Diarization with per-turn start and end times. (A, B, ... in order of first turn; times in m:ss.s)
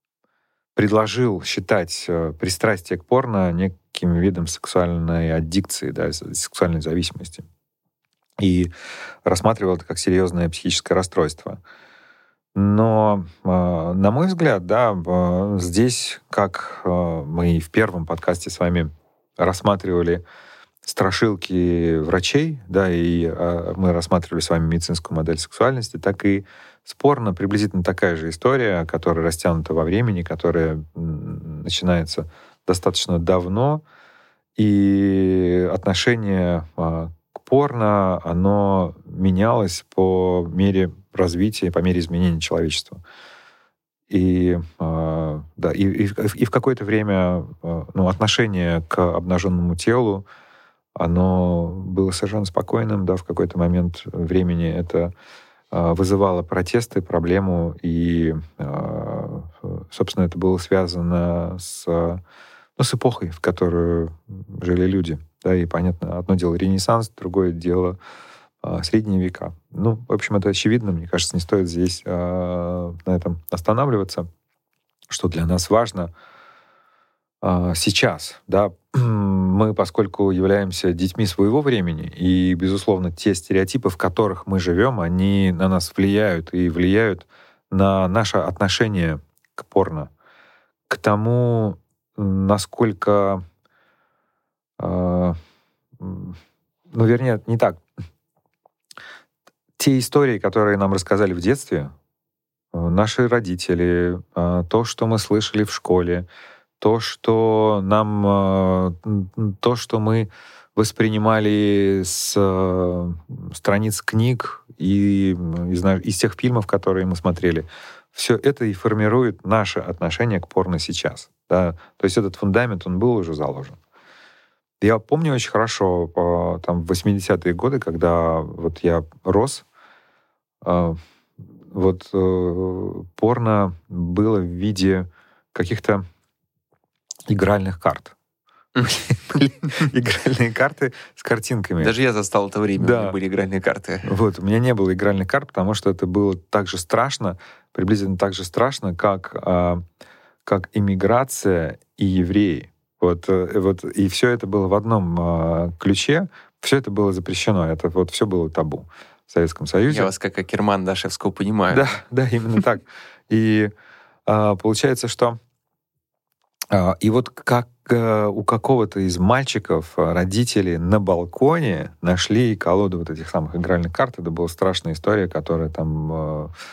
0:00.8-0:07.5 A
0:08.4-0:08.7 A
0:09.2-0:11.6 A
0:12.6-0:20.2 A
0:20.8-0:33.8 A
0:34.6-0:43.0 A
0:44.1-0:50.2 A
0:51.0-0:55.1 A
0:55.7-1:02.2 A
1:02.8-1:08.0 A
1:08.6-1:14.3 A
1:15.1-1:16.1 A
1:17.4-1:30.1 A
1:30.9-1:33.4 A
1:34.8-1:35.4 A
1:36.0-1:36.4 A
1:36.9-1:37.8 A
1:39.8-1:41.9 A
1:42.7-1:46.3 A
1:46.8-2:03.8 A
2:04.8-2:09.6 A
2:10.6-2:11.0 A
2:11.7-2:16.0 A
2:17.3-2:18.2 A
2:18.8-2:19.5 B
2:19.1-2:22.0 A
2:21.8-2:24.1 B
2:22.8-2:23.2 A
2:24.0-2:29.8 A
2:30.5-2:40.1 A
2:39.9-2:42.0 B
2:41.7-2:43.7 A
2:44.3-2:45.4 A
2:46.7-2:56.5 A